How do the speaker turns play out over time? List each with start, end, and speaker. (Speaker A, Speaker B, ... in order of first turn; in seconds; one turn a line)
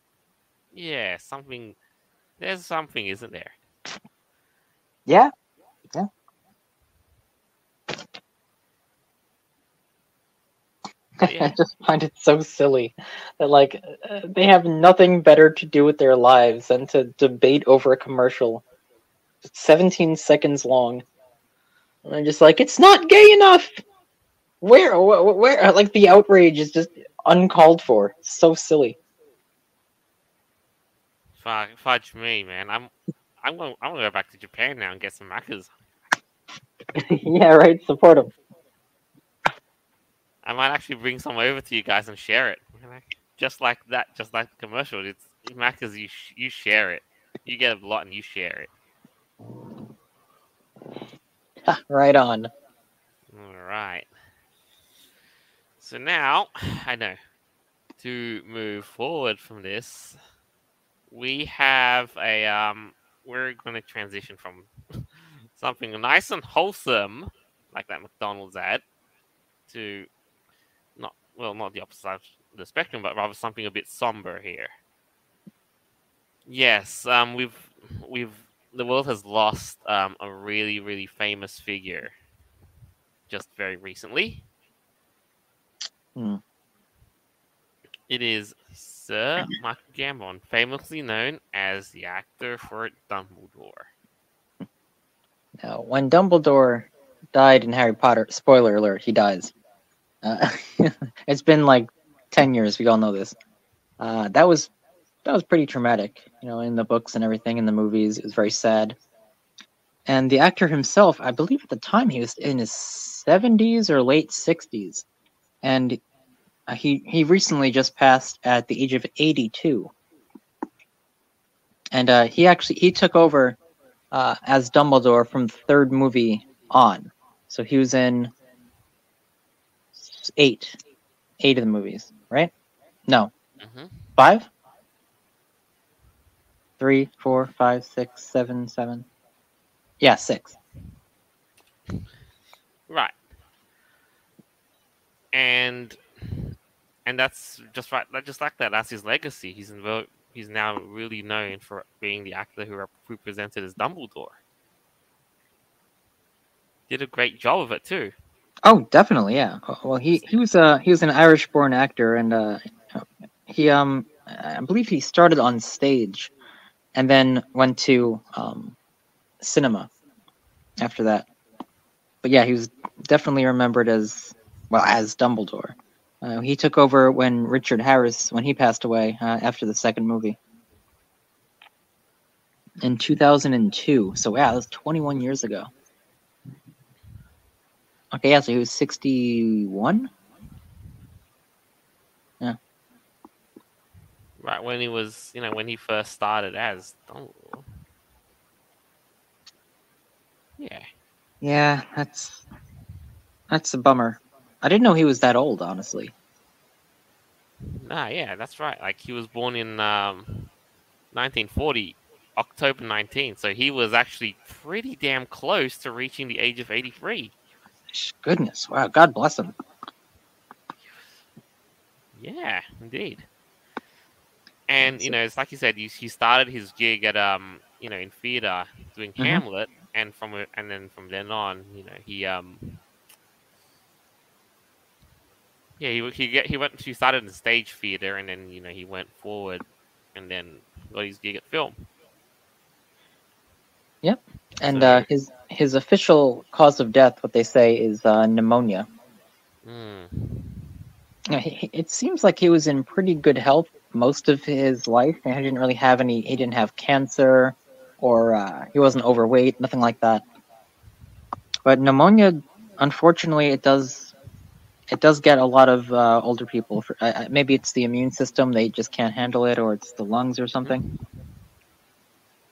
Speaker A: 0.7-1.8
Speaker A: 2.4-3.6
Speaker B: 11.2-18.6
Speaker A: 11.2-11.6
Speaker B: 19.5-21.0
Speaker B: 22.1-23.8
Speaker B: 24.6-29.0
Speaker A: 31.4-35.7
Speaker B: 37.0-38.3
Speaker A: 40.4-48.7
Speaker B: 51.6-52.5
Speaker A: 53.3-54.1
Speaker A: 55.8-57.2
Speaker A: 58.0-60.2
Speaker A: 61.1-68.8
Speaker A: 69.7-70.1
Speaker A: 71.0-74.7
Speaker A: 76.5-82.2
Speaker A: 83.3-84.5
Speaker A: 88.1-93.9
Speaker B: 95.6-99.5
Speaker B: 100.2-103.3
Speaker B: 104.0-104.7
Speaker B: 105.2-109.0
Speaker B: 110.1-115.1
Speaker B: 115.6-116.0
Speaker B: 116.7-119.9
Speaker B: 121.9-123.6
Speaker B: 124.1-128.3
Speaker B: 129.9-130.8
Speaker B: 131.4-132.5
Speaker A: 133.6-134.1
Speaker B: 134.2-134.5
Speaker B: 136.8-139.1
Speaker B: 140.0-140.6
Speaker A: 142.9-143.1
Speaker A: 145.3-154.4
Speaker A: 156.9-158.1
Speaker B: 158.7-166.3
Speaker B: 166.9-168.8
Speaker B: 169.4-169.9
Speaker B: 170.8-171.3
Speaker B: 172.2-180.4
Speaker B: 182.8-185.7
Speaker B: 188.1-190.1
Speaker A: 194.4-197.7
Speaker A: 200.6-200.9
Speaker B: 201.4-202.4
Speaker B: 203.5-206.1
Speaker A: 207.7-210.5
Speaker A: 211.1-217.3
Speaker B: 217.9-219.5
Speaker A: 222.1-223.3
Speaker A: 224.7-232.8
Speaker B: 224.8-225.2
Speaker B: 229.2-229.4
Speaker A: 235.8-241.9
Speaker B: 244.0-248.9
Speaker A: 244.6-245.1
Speaker A: 249.6-250.7
Speaker B: 251.3-260.2
Speaker B: 261.6-264.1
Speaker B: 264.9-270.8
Speaker A: 270.6-270.9